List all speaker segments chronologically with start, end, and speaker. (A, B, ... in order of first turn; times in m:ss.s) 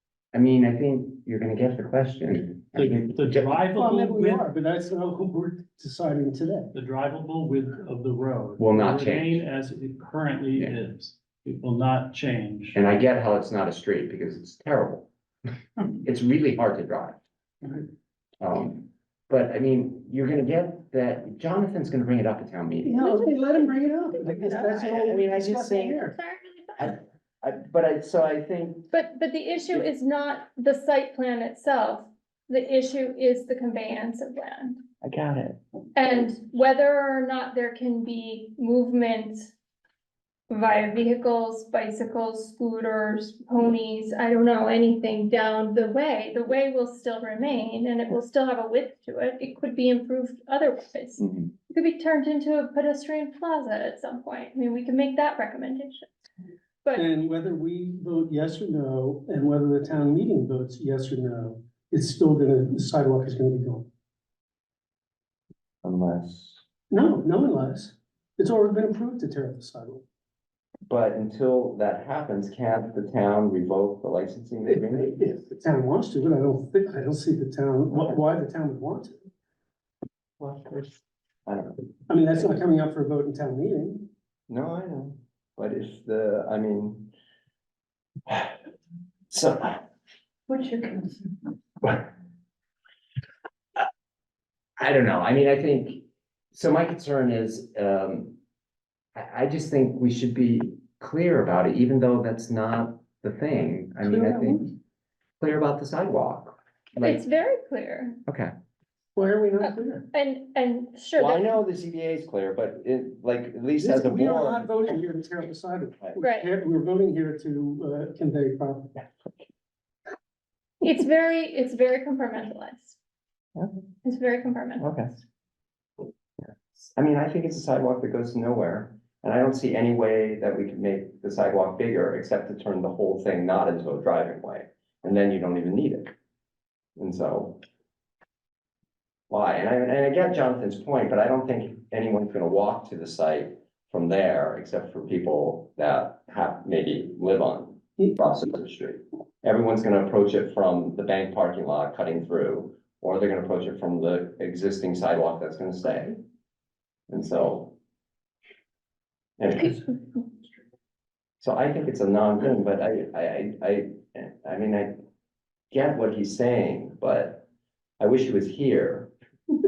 0:00.3-0:03.6 A
0:02.8-0:04.5 B
0:03.8-0:06.7 C
0:06.7-0:12.8 B
0:08.6-0:09.4 A
0:12.7-0:15.1 A
0:16.0-0:17.2 A
0:18.4-0:23.0 A
0:22.8-0:26.1 C
0:23.0-0:25.0 D
0:24.8-0:26.1 A
0:25.9-0:26.9 D
0:26.8-0:28.9 A
0:28.9-0:34.8 D
0:35.0-0:35.6 A
0:36.0-0:39.5 D
0:40.5-0:56.1 D
0:51.2-0:51.5 A
0:57.0-1:03.9 C
1:05.8-1:06.6 A
1:06.9-1:10.0 C
1:10.9-1:15.5 A
1:14.9-1:19.2 C
1:17.9-1:18.2 A
1:20.4-1:21.8 A
1:22.1-1:24.1 C
1:24.5-1:27.1 A
1:28.3-1:28.5 A
1:29.3-1:29.8 A
1:34.8-1:38.4 A
1:39.2-1:44.7 A
1:44.0-1:44.7 C
1:45.4-1:47.2 A
1:47.0-1:48.2 D
1:48.3-1:48.5 A
1:49.2-1:50.0 C
1:49.6-1:51.6 D
1:51.2-1:54.7 A
1:53.8-1:59.0 C
1:56.2-1:56.5 D
2:00.8-2:03.0 D
2:04.0-2:04.8 D
2:04.8-2:05.2 A
2:06.8-2:16.1 A
2:17.0-2:17.6 A
2:19.3-2:36.2 A
2:37.1-2:37.7 A
2:39.4-2:39.8 A
2:41.4-2:44.9 A
2:45.7-2:47.4 A
2:48.0-2:49.1 A